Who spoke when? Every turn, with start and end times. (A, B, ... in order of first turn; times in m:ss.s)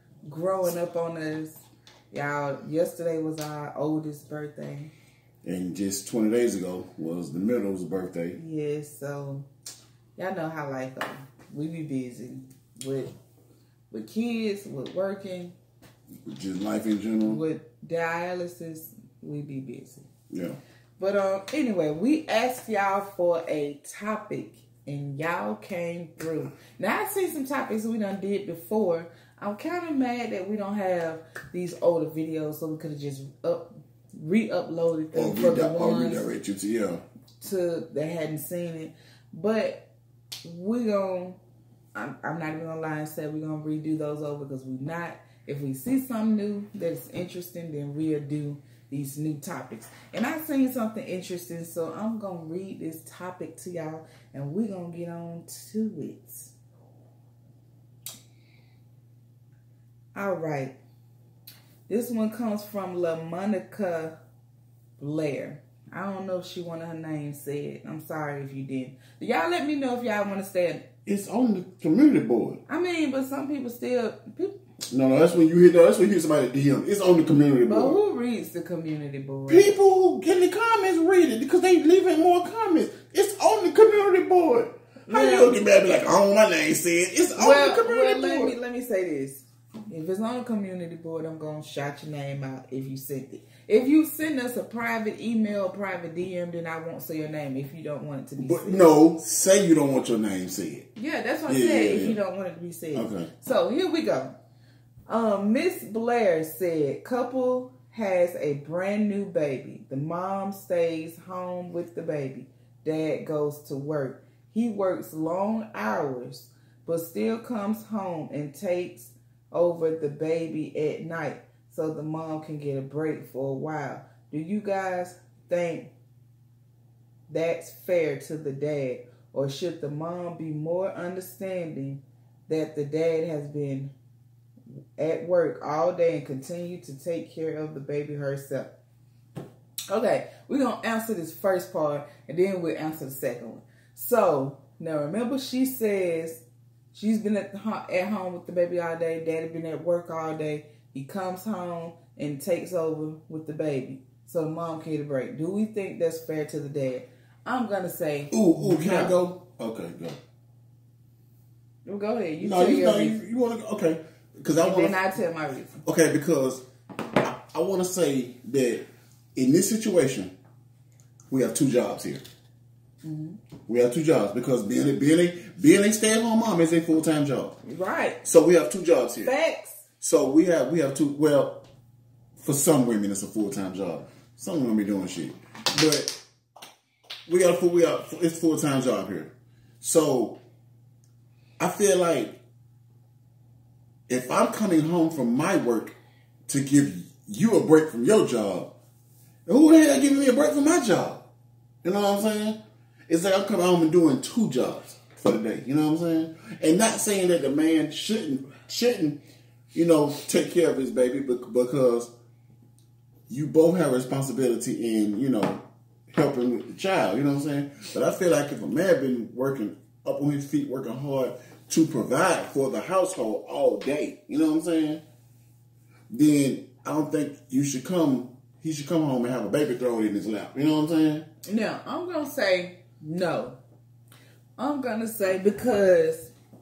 0:00.2-0:04.9 A
0:05.4-0:08.4 B
0:08.4-0:09.5 A
0:10.2-0:13.1 A
0:13.9-0:15.5 A
0:16.2-0:17.4 B
0:17.2-0:20.0 A
0:20.3-0:20.6 B
0:21.0-0:36.3 A
0:35.1-0:37.0 B
0:37.4-0:39.9 A
0:40.4-0:41.4 A
0:41.9-0:56.5 A
1:00.1-1:00.8 A
1:01.9-1:04.2 A
1:05.0-1:10.8 A
1:11.0-1:12.6 B
1:12.7-1:14.6 A
1:14.9-1:18.0 B
1:17.6-1:19.7 A
1:19.5-1:28.5 B
1:25.1-1:25.5 A
1:27.3-1:38.9 A
1:38.4-1:40.9 B
1:40.9-1:44.3 A
1:41.5-1:42.2 B
1:42.9-1:43.3 B
1:45.1-2:05.9 A
2:07.3-2:13.9 A
2:15.0-2:18.7 A
2:19.9-2:39.2 A
2:38.3-2:40.2 B
2:41.8-2:43.2 A
2:42.4-2:45.0 B
2:44.6-2:45.8 A
2:45.8-2:46.6 B
2:47.2-2:50.3 B
2:51.3-2:52.2 B
2:53.0-2:53.4 A
2:53.7-2:57.5 B
2:57.6-2:58.2 A
2:58.2-2:59.3 B
2:59.2-2:59.8 A
3:00.0-3:01.6 B
3:02.4-3:06.2 B
3:07.2-3:10.4 B
3:11.6-3:12.4 B
3:14.1-3:18.7 B
3:19.4-3:21.2 B
3:21.8-3:29.2 B
3:29.7-3:32.1 B
3:33.3-3:45.0 B
3:46.1-3:51.3 B
3:51.4-3:53.6 A
3:54.6-3:56.3 A